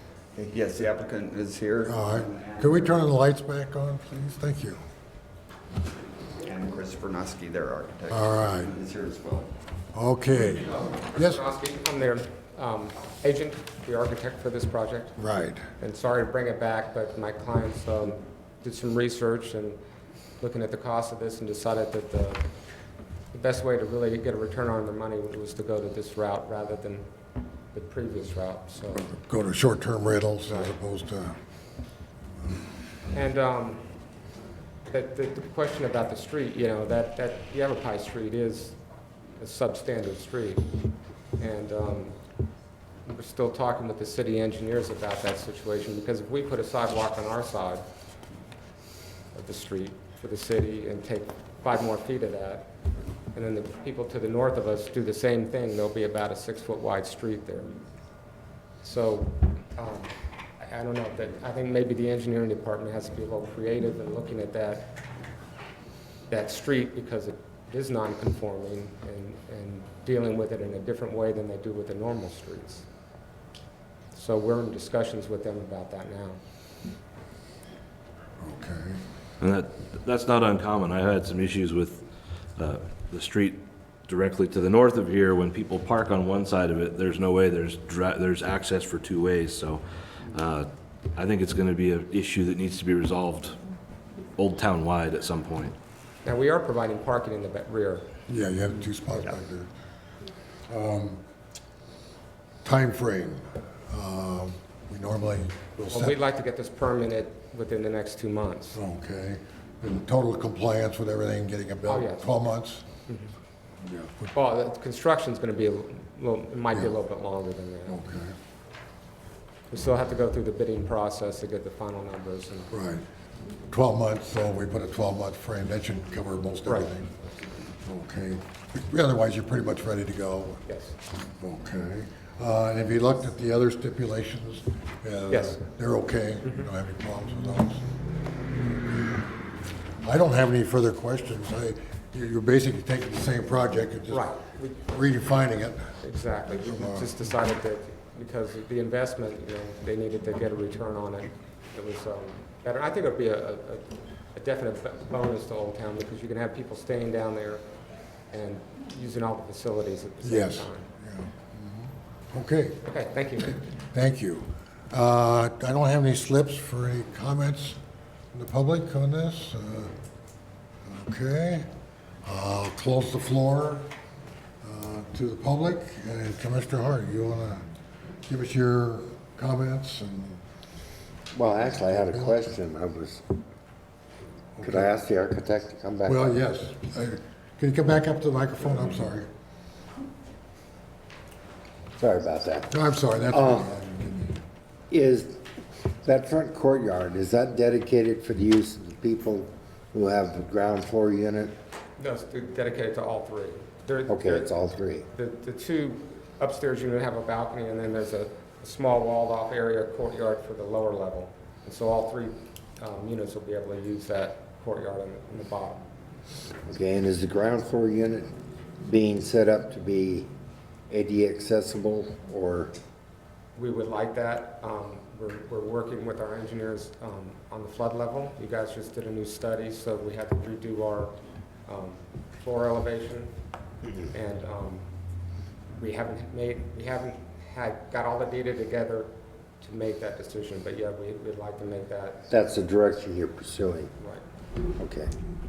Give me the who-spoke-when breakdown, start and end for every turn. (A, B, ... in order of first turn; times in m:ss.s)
0:00.4-0:02.7 A
0:01.8-0:04.8 B
0:06.4-0:09.5 A
0:08.1-0:08.7 B
0:09.9-0:11.4 B
0:10.8-0:15.2 C
0:15.2-0:15.6 B
0:15.8-0:19.8 C
0:20.4-0:22.5 C
0:23.3-0:27.1 C
0:27.7-0:29.1 C
0:29.0-0:31.4 B
0:30.5-0:30.7 C
0:33.1-0:33.9 C
0:34.9-0:38.8 C
0:39.4-0:40.6 C
0:41.4-0:42.2 C
0:43.0-0:47.8 C
0:49.3-0:52.7 C
0:53.3-0:57.8 C
0:58.8-1:05.0 C
1:06.3-1:12.8 C
1:14.1-1:16.4 C
1:18.4-1:19.0 B
1:19.4-1:22.0 D
1:22.6-1:33.6 D
1:34.4-1:35.7 D
1:36.2-1:38.1 C
1:38.3-1:39.7 B
1:40.7-1:41.2 B
1:42.6-1:46.2 B
1:45.9-1:48.8 C
1:48.7-1:52.8 B
1:51.8-1:52.3 C
1:53.1-1:53.3 C
1:53.8-1:54.3 B
1:54.3-1:58.0 C
1:57.9-1:58.3 B
1:59.7-2:02.7 C
2:02.7-2:03.0 B
2:03.7-2:07.1 B
2:07.8-2:10.6 B
2:10.7-2:11.0 C
2:11.4-2:17.9 B
2:15.3-2:15.6 C
2:16.4-2:16.7 C
2:18.8-2:19.3 B
2:20.0-2:27.2 B
2:24.1-2:24.8 C
2:26.0-2:37.6 C
2:38.3-2:40.8 C
2:40.2-2:42.8 B
2:42.8-2:43.6 C
2:43.9-2:47.8 B
2:48.3-2:49.9 B
2:50.8-2:51.7 B
2:52.2-2:53.9 B
2:54.6-2:57.6 B
2:58.3-3:00.4 B
3:01.3-3:03.3 E
3:01.8-3:02.5 B
3:04.6-3:04.9 B
3:04.6-3:06.3 E
3:06.1-3:09.3 B
3:12.0-3:12.7 E
3:12.7-3:14.4 B
3:13.3-3:13.7 E
3:14.9-3:15.4 E
3:16.0-3:21.5 E
3:22.0-3:24.5 C
3:24.1-3:25.0 E
3:25.1-3:35.8 C
3:36.7-3:40.3 E
3:40.9-3:42.7 E
3:43.6-3:53.3 C
3:54.1-3:54.9 C
3:55.8-3:59.1 C
3:59.6-4:02.2 C
4:02.3-4:03.9 E
4:04.7-4:05.1 E